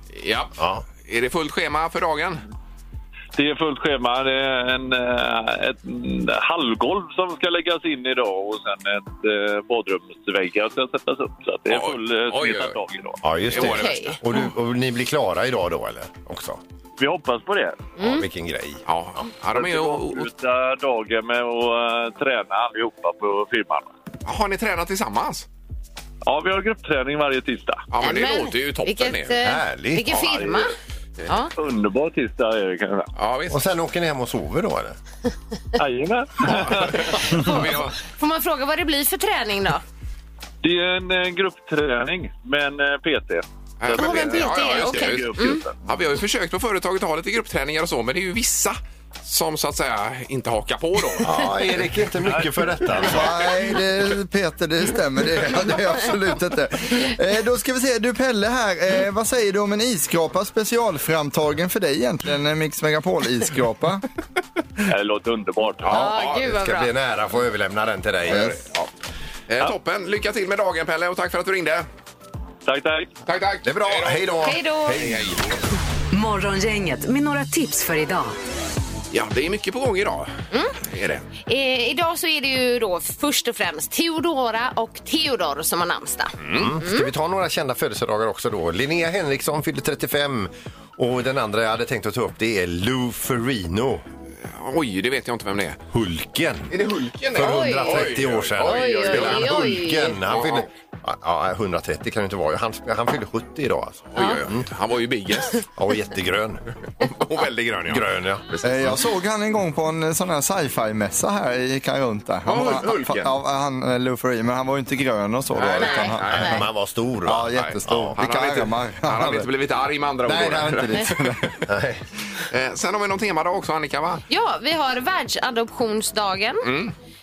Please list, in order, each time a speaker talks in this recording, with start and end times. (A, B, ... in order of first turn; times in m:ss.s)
0:00.1-0:02.4 A
0:00.6-0:00.8 B
0:03.4-0:13.2 C
0:11.7-0:12.8 A
0:13.2-0:16.6 B
0:13.4-0:14.5 A
0:13.5-0:14.2 D
0:17.0-0:17.9 C
0:18.0-0:18.3 D
0:18.0-0:18.8 B
0:18.9-0:20.3 A
0:19.5-0:23.9 C
0:24.3-0:25.5 A
0:26.2-0:27.9 C
0:27.9-0:29.3 A
0:28.0-0:30.7 D
0:29.4-0:30.1 B
0:30.1-0:30.7 C
0:31.6-0:33.1 C
0:33.2-0:33.6 A
0:33.5-0:35.0 B
0:35.8-0:37.0 C
0:36.5-0:38.0 A
0:37.3-0:39.8 D
0:40.6-0:45.8 C
0:43.8-0:51.5 A
0:43.9-0:45.6 D
0:51.2-0:53.3 B
0:52.2-0:52.5 C
0:53.0-1:04.0 E
1:04.9-1:06.0 C
1:05.8-1:06.4 A
1:05.9-1:06.9 D
1:06.4-1:08.6 B
1:08.3-1:08.9 A
1:08.3-1:08.6 E
1:09.5-1:11.9 A
1:12.7-1:13.1 C
1:13.3-1:14.4 A
1:13.6-1:15.5 B
1:14.4-1:15.0 D
1:15.0-1:15.4 A
1:16.1-1:18.4 F
1:19.1-1:21.3 A
1:21.5-1:27.1 D
1:26.4-1:26.7 A
1:26.5-1:34.0 B
1:34.4-1:35.8 A
1:35.9-1:36.8 B
1:36.7-1:40.7 A
1:37.3-1:44.7 B
1:37.4-1:40.2 D
1:44.1-1:45.7 A
1:44.2-1:44.4 D
1:45.8-1:46.6 B
1:47.0-1:49.0 A
1:47.9-1:48.4 B
1:48.6-1:56.6 E
1:52.5-1:53.3 A
1:55.6-1:56.6 A
1:55.8-1:56.6 D
1:56.2-1:58.2 B
1:57.2-1:59.5 E
1:57.4-2:01.5 A
2:00.3-2:01.6 E
2:01.7-2:02.0 B
2:02.5-2:04.2 A
2:04.3-2:06.6 D
2:06.6-2:06.9 A